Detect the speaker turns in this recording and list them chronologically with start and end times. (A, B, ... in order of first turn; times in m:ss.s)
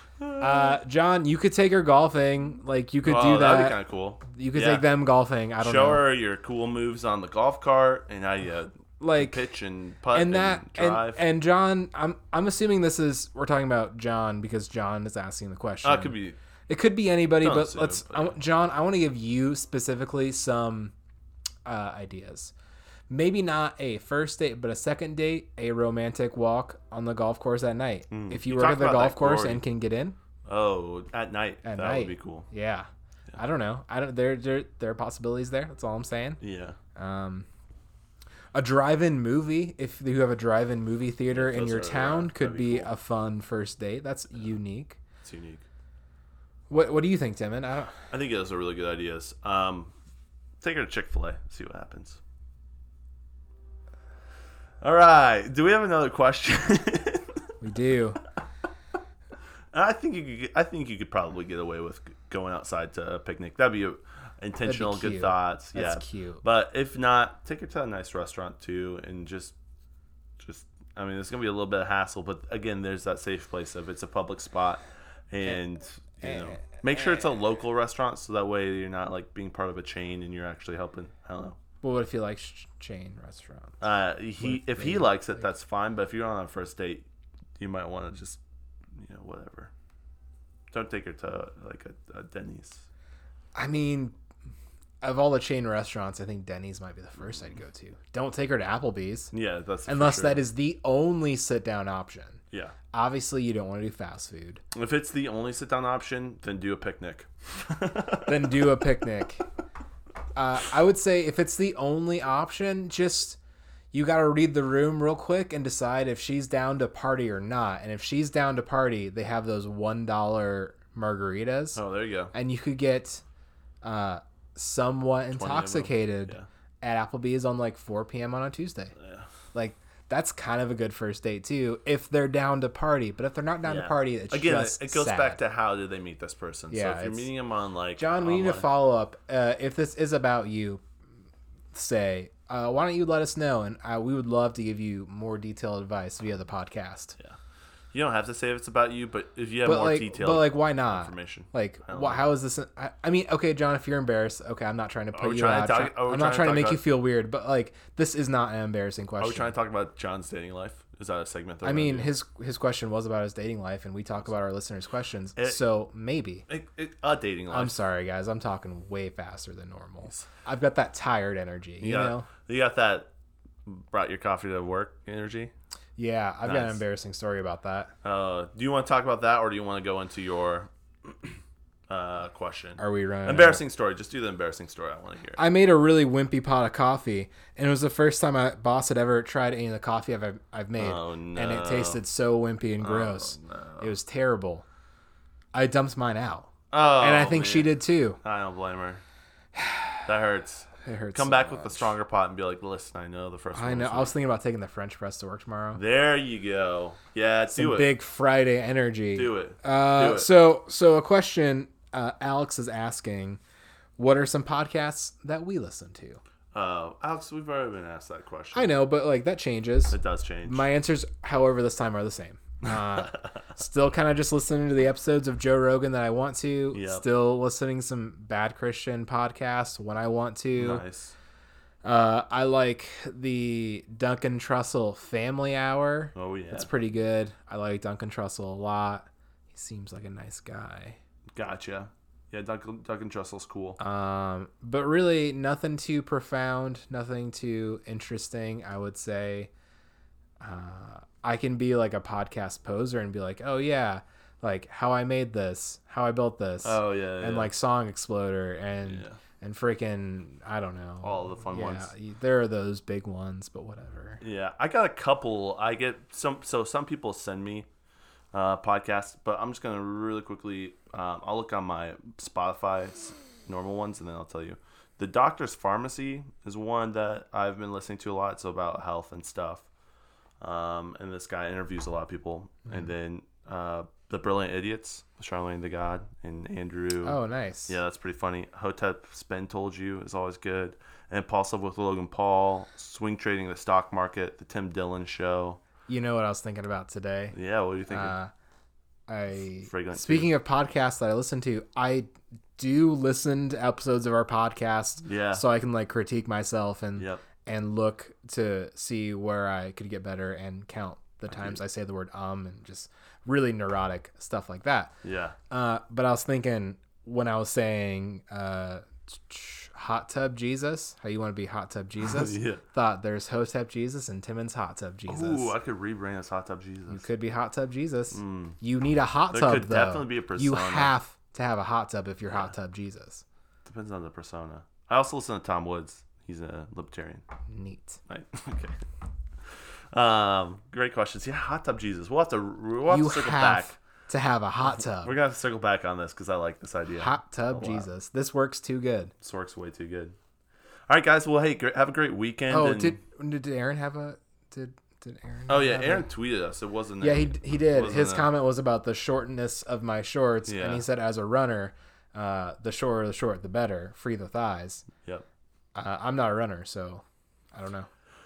0:00.2-0:00.8 A
0:00.4-0:06.0 B
0:03.0-0:04.9 A
0:05.6-0:11.2 A
0:09.0-0:09.5 B
0:10.1-0:16.2 B
0:15.8-0:16.4 A
0:16.7-0:20.9 B
0:17.4-0:18.4 A
0:21.7-0:22.5 B
0:23.1-0:30.2 B
0:28.1-0:29.6 A
0:30.5-0:32.5 A
0:31.6-0:36.4 B
0:36.4-0:36.8 A
0:37.0-0:37.5 B
0:38.5-0:45.0 B
0:41.3-0:42.9 A
0:45.2-0:45.6 A
0:46.7-0:48.0 B
0:48.1-0:49.9 A
0:50.6-0:52.2 A
0:54.8-0:57.4 A
0:57.6-0:58.2 B
0:59.7-1:09.6 A
1:04.6-1:06.4 B
1:10.4-1:21.6 A
1:16.2-1:17.2 B
1:21.8-1:23.8 B
1:23.8-1:27.1 A
1:24.4-1:25.5 B
1:27.6-1:28.4 A
1:29.0-1:29.7 A
1:30.7-1:32.8 A
1:33.6-1:34.2 B
1:35.0-1:39.3 B
1:39.3-1:40.5 A
1:39.9-1:42.4 B
1:42.9-1:44.6 B
1:44.7-1:48.7 A
1:48.3-1:49.5 B
1:50.4-1:53.4 B
1:53.9-2:01.8 B
2:01.8-2:02.3 A
2:02.3-2:03.2 B
2:03.8-2:08.9 B
2:05.3-2:06.5 A
2:09.0-2:09.3 A
2:09.5-2:15.4 B
2:13.6-2:18.7 A
2:16.7-2:17.3 B
2:18.0-2:20.8 B
2:21.7-2:27.2 B
2:27.9-2:32.3 A
2:29.6-2:39.6 B
2:35.2-2:36.8 A
2:39.2-2:42.1 A
2:41.6-2:46.4 B
2:45.4-2:45.6 A
2:46.5-2:47.8 A
2:47.5-2:52.3 B
2:51.8-2:53.1 A
2:53.7-2:55.5 A
2:56.0-2:57.9 B
2:56.4-2:56.8 A
2:58.0-3:01.3 A
3:01.9-3:05.4 A
3:02.8-3:03.6 B
3:05.4-3:14.7 B
3:10.8-3:12.0 A
3:12.8-3:13.9 A
3:15.5-3:18.2 B
3:16.7-3:19.0 A
3:19.6-3:20.1 B
3:20.1-3:24.2 A
3:20.8-3:22.0 B
3:23.5-3:25.8 B
3:25.8-3:27.9 A
3:27.5-3:33.4 B
3:29.1-3:30.3 A
3:34.0-3:36.2 B
3:36.5-3:38.7 A
3:38.5-3:50.8 B
3:39.9-3:40.7 A
3:46.7-3:47.0 A
3:50.6-3:51.2 A
3:51.8-4:01.0 B
3:56.2-3:56.7 A
4:01.4-4:03.8 A
4:03.8-4:09.5 B
4:10.4-4:24.2 B
4:16.6-4:17.5 A
4:18.8-4:19.2 A
4:21.0-4:21.9 A
4:24.2-4:27.7 A
4:28.3-4:39.7 A
4:40.4-4:55.6 A
4:47.0-4:47.8 B
4:55.9-4:57.4 B
4:57.3-4:58.2 A
4:57.9-4:58.3 B
4:59.1-5:14.9 B
4:59.6-5:00.3 A
5:05.0-5:05.4 A
5:07.0-5:07.2 A
5:11.3-5:11.6 A
5:15.0-5:15.4 A
5:15.5-5:25.6 B
5:22.0-5:22.6 A
5:25.1-5:27.1 A
5:26.9-5:33.2 B
5:28.1-5:28.6 A
5:29.3-5:30.9 A
5:32.2-5:32.5 A
5:33.6-5:37.2 A
5:37.5-5:38.0 B
5:38.1-5:38.8 A
5:39.9-5:43.8 A
5:42.9-5:45.2 B
5:44.7-5:47.9 A
5:47.0-5:49.1 B
5:49.2-5:50.2 A
5:50.9-5:53.0 A
5:52.5-5:56.1 B
5:55.5-5:58.3 A
5:57.0-6:04.9 B
6:00.5-6:00.8 A
6:05.8-6:07.9 B